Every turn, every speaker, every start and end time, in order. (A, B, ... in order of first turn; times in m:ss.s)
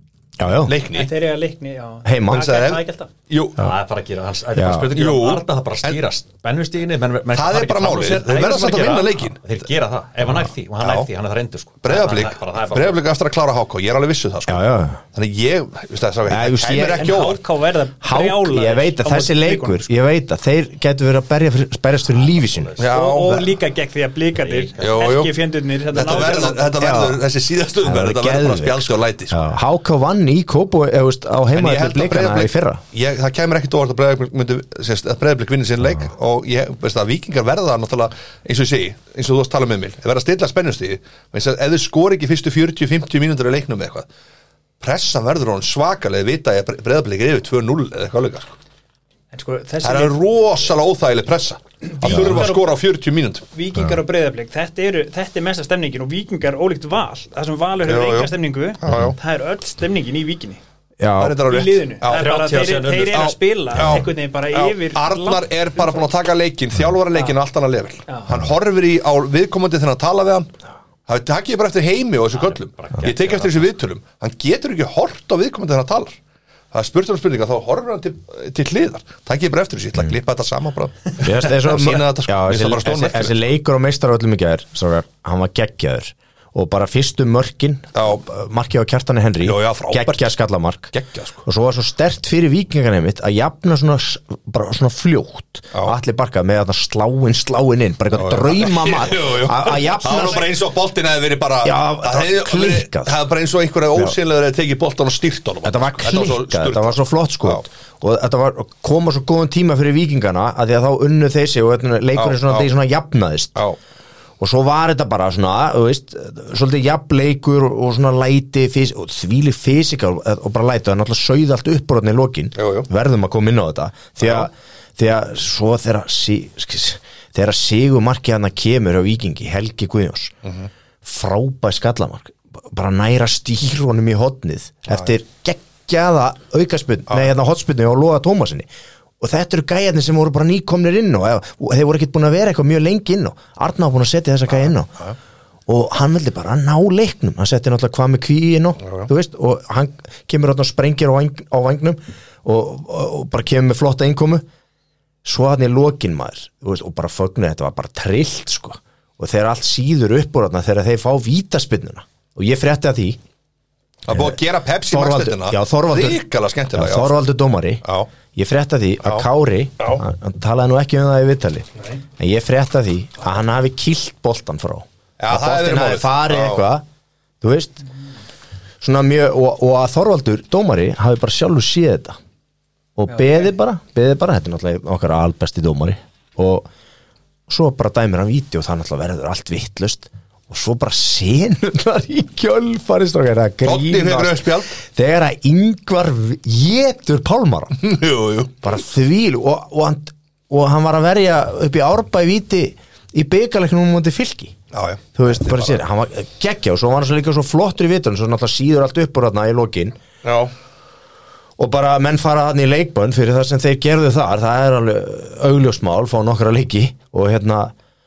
0:00.4-0:00.8 A
0:00.6-0:01.1 B
0:00.9-0:03.1 C
0:02.0-0:02.6 A
0:02.3-0:03.7 B
0:03.6-0:13.1 D
0:04.5-0:04.9 A
0:04.9-0:06.0 B
0:07.3-0:09.4 B
0:10.8-0:11.1 B
0:11.8-0:14.6 B
0:14.5-0:15.0 A
0:15.1-0:17.4 B
0:16.3-0:17.2 A
0:16.9-0:19.9 C
0:18.0-0:22.7 A
0:22.2-0:22.9 D
0:22.8-0:23.5 B
0:22.9-0:26.7 C
0:24.4-0:25.0 D
0:24.8-0:25.3 B
0:25.9-0:29.4 B
0:26.1-0:26.5 D
0:26.8-0:27.2 A
0:27.8-0:32.8 A
0:31.5-0:44.1 B
0:44.8-0:48.6 B
0:49.3-0:50.2 C
0:49.8-0:53.5 B
0:51.8-0:52.7 C
0:53.5-1:00.6 C
0:57.8-0:59.2 B
1:01.0-1:01.4 A
1:01.2-1:02.3 B
1:01.4-1:06.0 C
1:02.1-1:04.0 D
1:03.1-1:10.5 B
1:08.1-1:08.4 C
1:11.1-1:16.2 B
1:12.3-1:13.8 D
1:16.7-1:23.4 B
1:21.2-1:30.9 A
1:28.0-1:28.2 B
1:29.4-1:30.3 B
1:30.9-1:31.4 B
1:31.4-1:40.5 A
1:38.1-1:47.6 B
1:41.6-1:43.2 A
1:45.6-1:53.6 A
1:52.2-1:52.7 B
1:54.4-2:10.4 A
2:02.6-2:02.9 B
2:04.2-2:04.5 B
2:10.4-2:10.7 B
2:11.0-2:18.7 A
2:19.2-2:24.9 A
2:25.7-2:34.4 A
2:28.8-2:29.1 B
2:35.2-2:43.2 A
2:44.0-2:47.2 B
2:44.1-2:44.4 A
2:44.9-2:46.2 A
2:46.7-2:56.8 A
2:55.2-2:56.6 B
2:57.4-2:57.9 A
2:58.8-3:02.2 A
3:03.0-3:06.7 A
3:03.1-3:03.5 C
3:07.5-3:17.8 A
3:13.6-3:14.8 B
3:17.8-3:18.5 B
3:18.6-3:24.6 A
3:24.7-3:25.8 B
3:25.2-3:30.0 A
3:30.2-3:30.5 B
3:31.6-3:37.7 A